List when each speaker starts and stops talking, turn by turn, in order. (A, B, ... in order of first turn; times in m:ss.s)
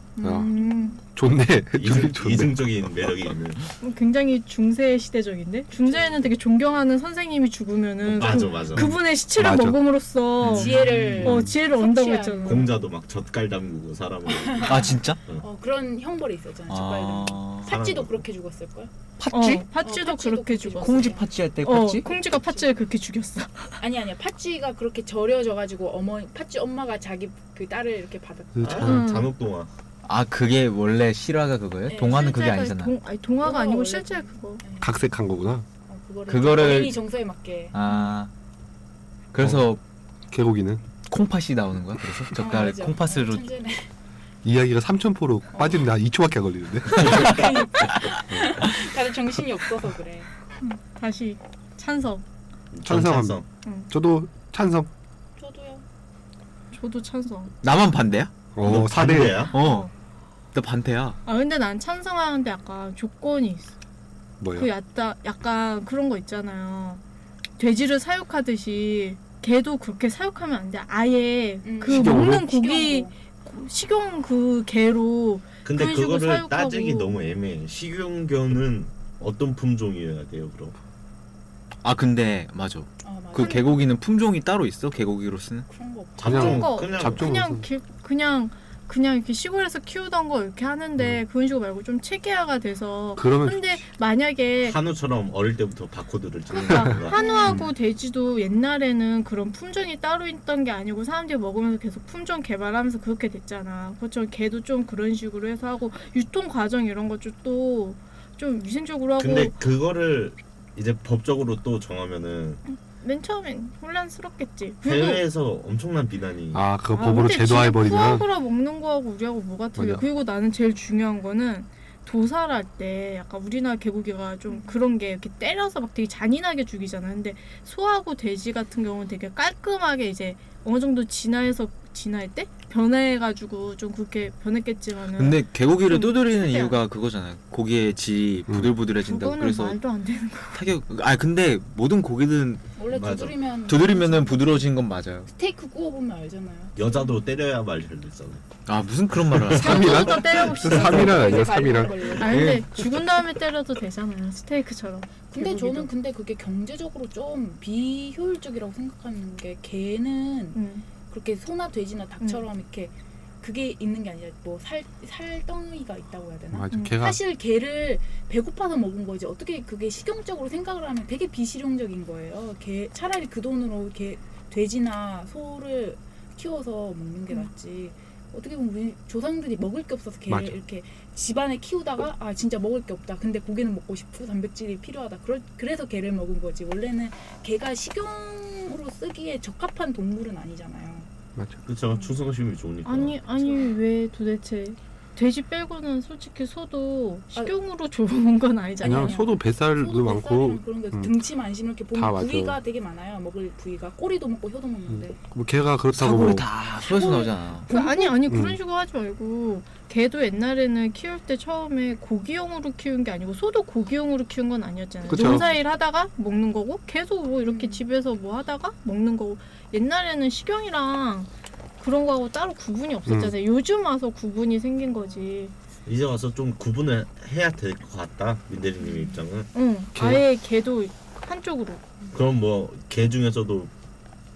0:00.2-0:01.0 A
0:00.2-0:01.0 B
0:00.2-0:00.5 C
0:01.2-0:02.9 C
0:01.8-0:03.7 D
0:03.8-0:12.7 A
0:05.8-0:06.3 B
0:08.0-0:08.9 D
0:08.8-0:09.8 C
0:10.4-0:11.2 E
0:10.5-0:12.8 B
0:11.2-0:11.5 C
0:12.4-0:15.4 D
0:14.3-0:18.9 B
0:14.6-0:15.2 E
0:16.7-0:17.7 E
0:17.7-0:18.2 D
0:19.2-0:19.7 E
0:19.3-0:23.8 A
0:19.8-0:21.3 B
0:20.8-0:22.1 E
0:22.0-0:22.7 B
0:23.8-0:28.9 B
0:28.6-0:29.0 C
0:28.6-0:29.7 D
0:28.8-0:29.3 A
0:30.0-0:32.9 E
0:31.9-0:32.4 B
0:32.0-0:34.6 A
0:33.4-0:35.0 B
0:34.8-0:35.6 C
0:35.9-0:37.8 B
0:36.3-0:37.0 E
0:37.7-0:38.3 E
0:39.3-0:39.8 E
0:40.3-0:40.8 C
0:41.1-0:43.5 E
0:42.4-0:43.9 B
0:44.4-0:47.3 C
0:45.5-0:45.9 B
0:47.0-0:50.3 B
0:50.6-0:52.2 A
0:52.7-0:53.5 D
0:52.8-0:53.4 C
0:53.6-0:53.9 A
0:53.9-0:54.9 C
0:55.4-0:55.8 B
0:56.7-0:57.5 A
0:57.6-0:58.3 E
0:58.6-0:59.5 C
0:58.6-0:59.6 D
0:59.5-0:59.9 E
0:59.5-0:59.9 A
1:00.5-1:01.2 E
1:01.3-1:03.8 A
1:04.4-1:04.7 C
1:04.5-1:07.0 A
1:07.6-1:17.1 A
1:11.6-1:13.1 B
1:11.9-1:12.4 C
1:15.6-1:20.8 D
1:21.8-1:25.7 E
1:23.0-1:23.8 B
1:23.4-1:23.8 A
1:25.7-1:26.7 B
1:26.2-1:27.3 D
1:26.2-1:27.7 C
1:26.3-1:34.8 A
1:33.2-1:33.8 C
1:34.6-1:37.4 D
1:36.5-1:49.6 A
1:37.1-1:37.7 B
1:49.2-1:52.6 D
1:52.7-1:55.2 A
1:54.8-1:56.6 D
1:56.5-1:58.3 C
1:56.9-2:16.8 A
1:59.8-2:00.0 C
2:04.5-2:04.7 B
2:15.2-2:19.8 E
2:18.5-2:18.7 C
2:19.0-2:20.6 A
2:20.5-2:22.7 E
2:22.8-2:24.7 B
2:22.9-2:23.4 D
2:23.7-2:25.3 E
2:25.3-2:27.2 B
2:26.8-2:28.4 D
2:28.7-2:30.2 E
2:29.3-2:29.9 D
2:29.5-2:32.2 C
2:29.6-2:31.6 A
2:29.8-2:32.6 B
2:32.2-2:32.8 E
2:32.2-2:35.9 A
2:35.3-3:11.1 B
2:40.5-2:40.9 A
2:46.5-2:47.2 C
2:46.7-2:47.0 A
3:00.3-3:00.6 C
3:11.7-3:13.2 D
3:12.8-3:19.3 A
3:13.4-3:13.7 B
3:18.8-3:25.2 B
3:18.8-3:21.1 C
3:21.9-3:22.6 C
3:24.9-3:26.5 C
3:25.9-3:27.7 E
3:26.8-3:28.2 B
3:27.7-3:45.5 A
3:28.3-3:28.6 C
3:35.1-3:35.5 C
3:35.1-3:35.5 B
3:37.4-3:37.8 B
3:43.1-3:43.4 C
3:45.9-3:49.5 D
3:48.8-3:49.2 B
3:49.5-3:51.8 A
3:50.0-3:50.2 C
3:52.1-3:53.7 D